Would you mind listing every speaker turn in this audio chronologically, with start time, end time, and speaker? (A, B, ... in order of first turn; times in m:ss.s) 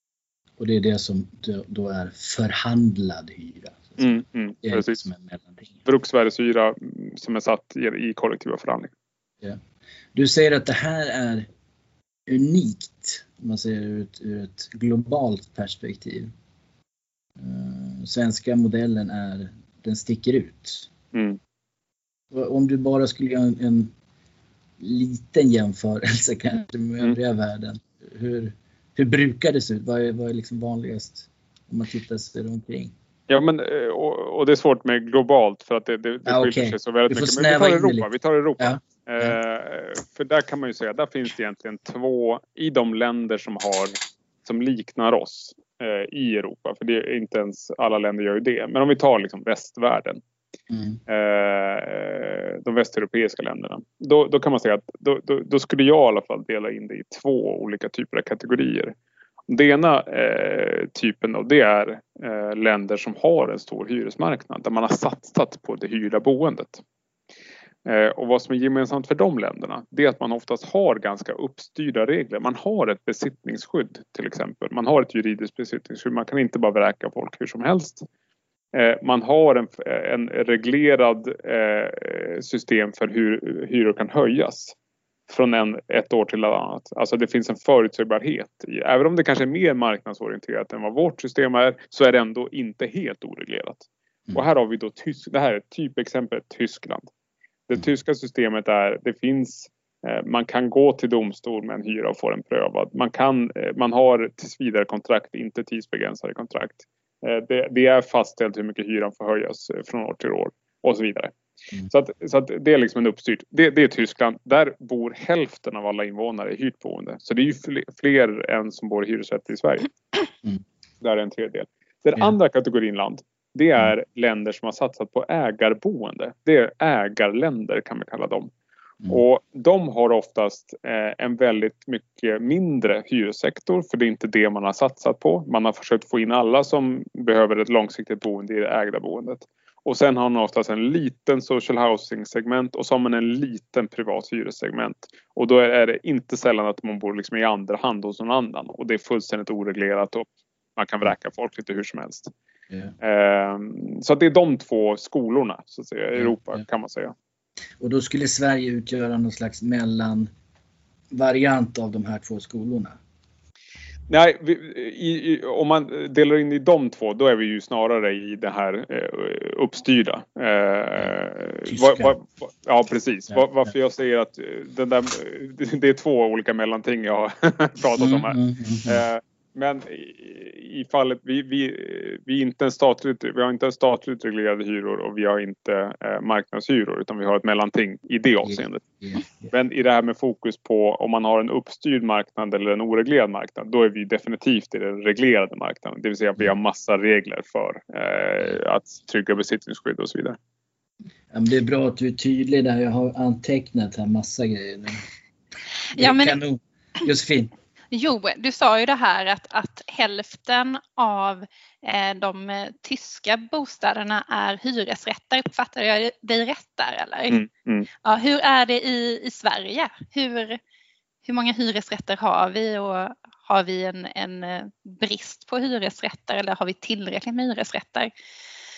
0:00.6-0:04.0 A
0:04.0-0:05.0 B
0:04.6-0:05.8 A
0:05.8-0:08.9 B
0:10.1-0:11.5 A
0:12.3-0:16.3 A
0:17.4-0:20.9 A
0:21.1-0:21.4 B
0:22.3-0:23.9 A
0:24.8-0:32.9 A
0:33.3-0:50.2 B
0:36.3-0:38.1 A
0:38.6-0:39.4 A
0:50.7-0:51.0 A
0:51.1-0:58.9 B
0:59.5-1:06.8 B
1:07.9-1:18.1 B
1:18.7-1:24.8 B
1:25.3-1:37.1 B
1:37.7-1:51.3 B
1:51.9-1:59.9 B
2:01.0-2:08.5 B
2:09.1-2:32.3 B
2:33.0-2:37.1 B
2:37.8-2:40.3 A
2:41.1-2:43.0 A
2:44.1-3:08.8 B
2:51.7-2:52.1 A
2:58.0-2:59.0 A
3:08.4-3:09.5 A
3:09.5-3:20.4 B
3:21.3-3:25.0 A
3:25.9-3:26.4 C
3:26.0-3:27.5 A
3:27.9-3:37.4 C
3:37.3-3:37.9 B
3:38.0-3:40.6 C
3:41.2-3:48.1 C